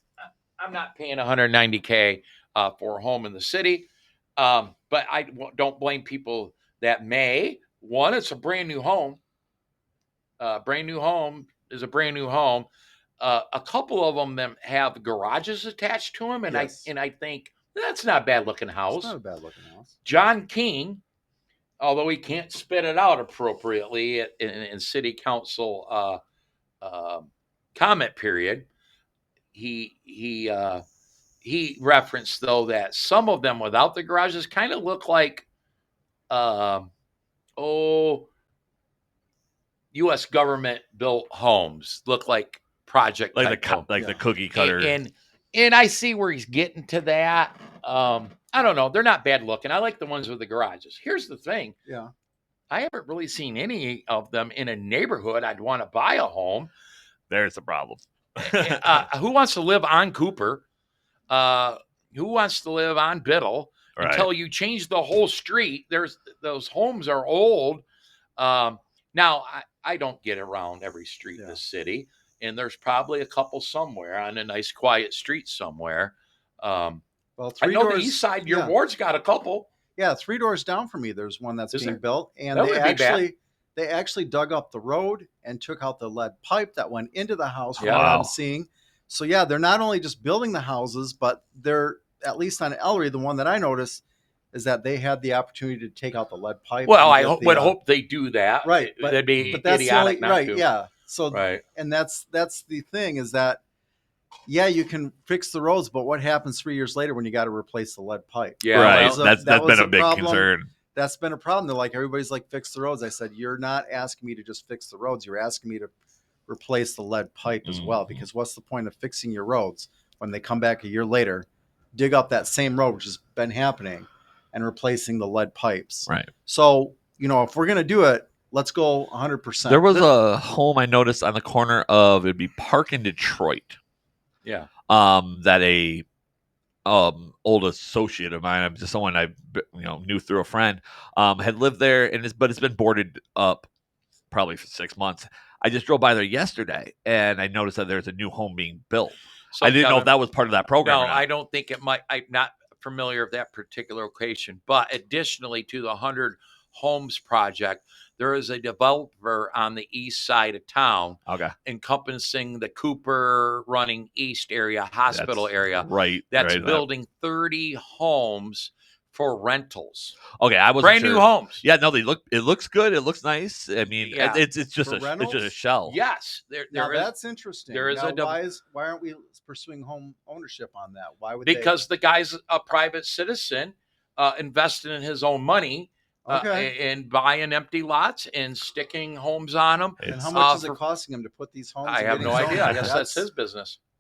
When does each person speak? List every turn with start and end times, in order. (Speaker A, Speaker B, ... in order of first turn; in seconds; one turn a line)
Speaker A: 0.6-9.2
Speaker A: 10.4-12.7
Speaker A: 13.2-19.1
Speaker B: 16.5-16.9
Speaker B: 18.9-19.9
Speaker A: 20.0-21.0
Speaker A: 21.8-26.2
Speaker A: 26.8-28.7
Speaker A: 29.5-30.8
Speaker A: 31.4-35.5
Speaker A: 36.3-36.9
Speaker A: 37.6-38.3
Speaker A: 39.9-43.9
Speaker C: 43.3-45.0
Speaker A: 44.5-51.8
Speaker B: 51.9-52.1
Speaker A: 52.7-56.7
Speaker C: 57.3-59.0
Speaker A: 58.5-60.6
Speaker A: 61.3-67.8
Speaker C: 64.0-64.3
Speaker A: 68.4-77.0
Speaker B: 77.4-78.8
Speaker A: 77.6-79.7
Speaker B: 80.0-97.8
Speaker A: 81.7-82.0
Speaker A: 82.5-83.3
Speaker A: 87.8-88.1
Speaker C: 87.9-88.3
Speaker A: 96.9-100.7
Speaker B: 98.6-103.6
Speaker A: 101.3-101.6
Speaker B: 104.5-115.9
Speaker A: 108.6-109.2
Speaker C: 108.7-110.7
Speaker B: 116.5-130.1
Speaker C: 117.7-118.2
Speaker C: 129.7-133.8
Speaker C: 134.9-136.1
Speaker C: 136.9-143.7
Speaker C: 144.3-151.2
Speaker A: 149.5-150.1
Speaker A: 150.8-170.2
Speaker C: 161.3-161.5
Speaker C: 165.1-166.9
Speaker C: 170.4-176.0
Speaker A: 170.8-171.7
Speaker A: 174.0-174.4
Speaker B: 174.8-175.5
Speaker A: 175.9-177.1
Speaker B: 176.7-181.7
Speaker A: 177.7-178.4
Speaker A: 181.4-190.8
Speaker B: 186.3-186.7
Speaker C: 190.0-190.3
Speaker B: 190.1-193.2
Speaker A: 191.8-193.8
Speaker C: 192.2-192.9